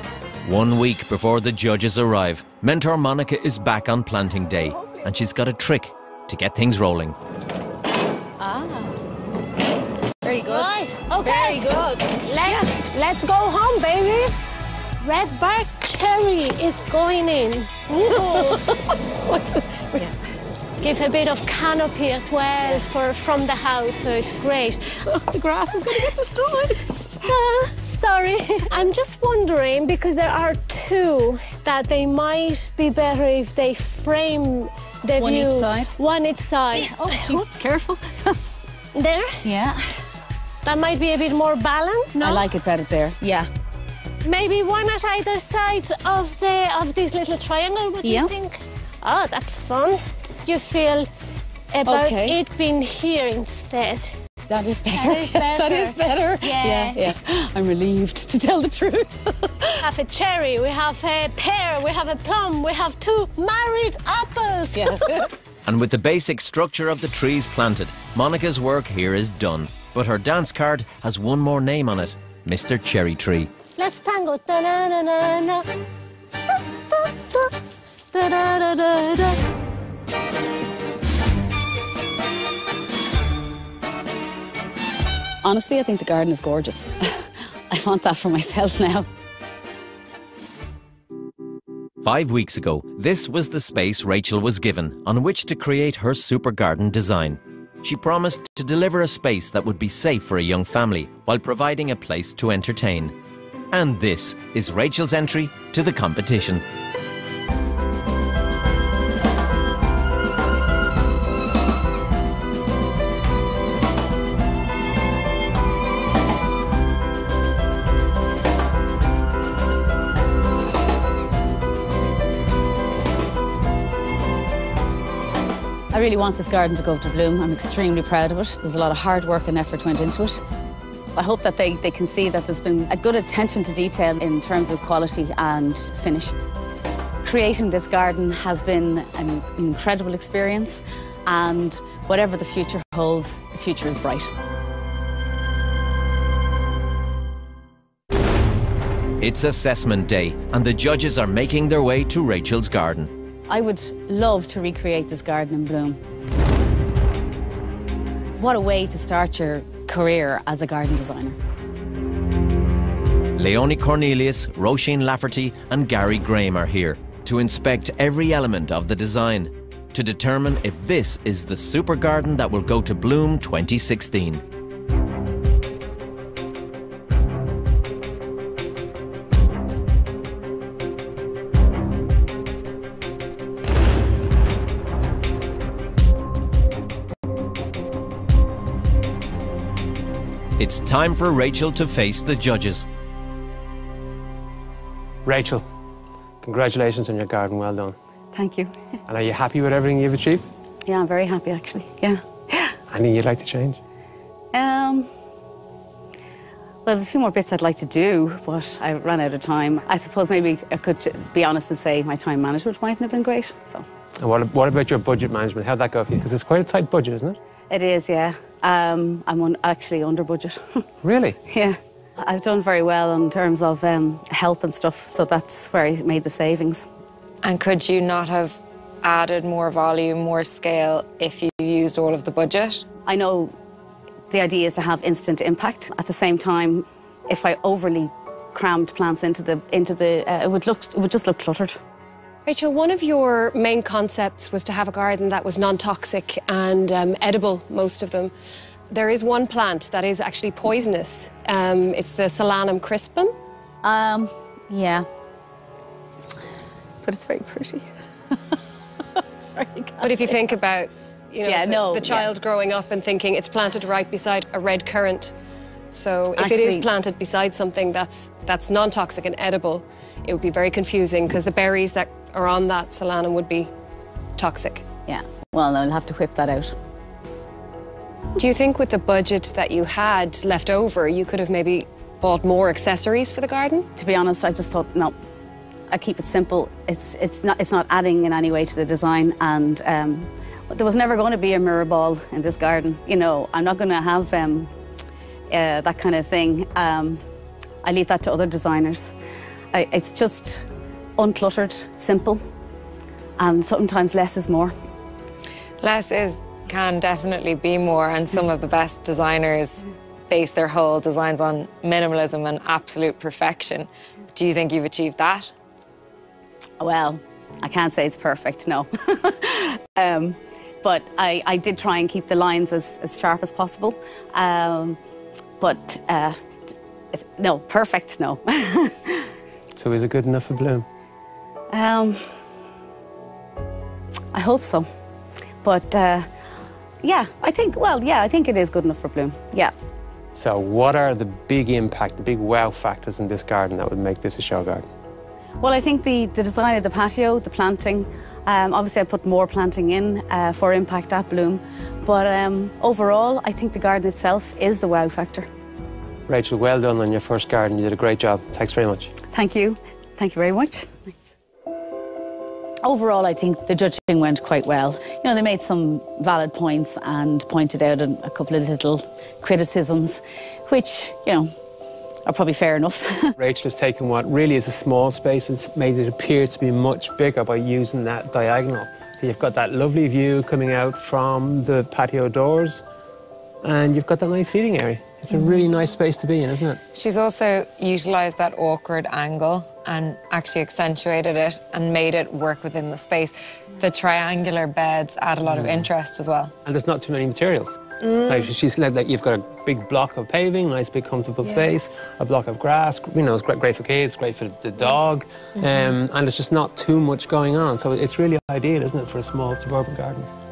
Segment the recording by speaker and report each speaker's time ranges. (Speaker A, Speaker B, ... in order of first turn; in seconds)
Speaker A: 0.4-7.2, 65.7-73.5, 92.0-103.2, 103.7-106.6, 149.2-153.1, 163.4-174.4, 190.6-192.9
Speaker B: 8.4-9.1, 10.2-12.7, 17.9-20.1, 22.6-22.9, 25.1-26.9, 35.2-36.0, 36.7-38.4, 39.4-39.9, 42.2-43.5, 48.0-48.3, 51.8-52.4, 54.5-59.8, 64.8-65.3, 78.1-79.4, 85.4-89.1, 125.9-130.4, 131.2-136.4, 137.2-144.3, 153.5-156.0, 158.4-161.4, 198.3-198.7, 200.9-202.8, 204.5-205.1, 206.8-213.9, 217.7-220.9, 221.5-226.9, 233.1-233.5, 234.3-241.8, 253.8-255.1, 257.0-258.6, 259.1-260.4, 261.4-262.3, 266.4-266.9, 275.1-276.8, 283.9-285.2, 285.9-294.7, 295.5-297.2, 297.8-299.1, 299.7-300.6, 301.2-302.4, 303.4-304.7, 316.8-325.0, 325.6-326.4, 327.1-329.3, 331.7-332.2, 334.3-334.9, 335.6-336.3, 337.0-339.7, 345.6-355.5, 359.3-361.1, 362.8-371.5, 372.3-373.4
Speaker C: 10.5-14.4, 15.0-18.6, 20.8-25.1, 27.2-37.7, 38.9-39.4, 40.6-42.5, 44.2-51.1, 51.7-54.1, 54.9-57.1, 59.8-65.3, 73.8-75.7
Speaker D: 195.2-195.6, 196.4-198.0, 199.1-200.5, 202.9-203.8, 214.2-217.4, 221.0-221.4, 329.8-330.9, 340.4-344.9, 356.3-359.1, 373.4-382.8, 383.6-386.8, 396.7-410.3
Speaker E: 227.4-232.8, 305.8-315.5, 386.9-396.5
Speaker F: 242.5-248.3, 248.9-253.3, 260.0-265.3, 265.9-273.7, 274.4-274.9, 278.4-283.9, 398.0-398.4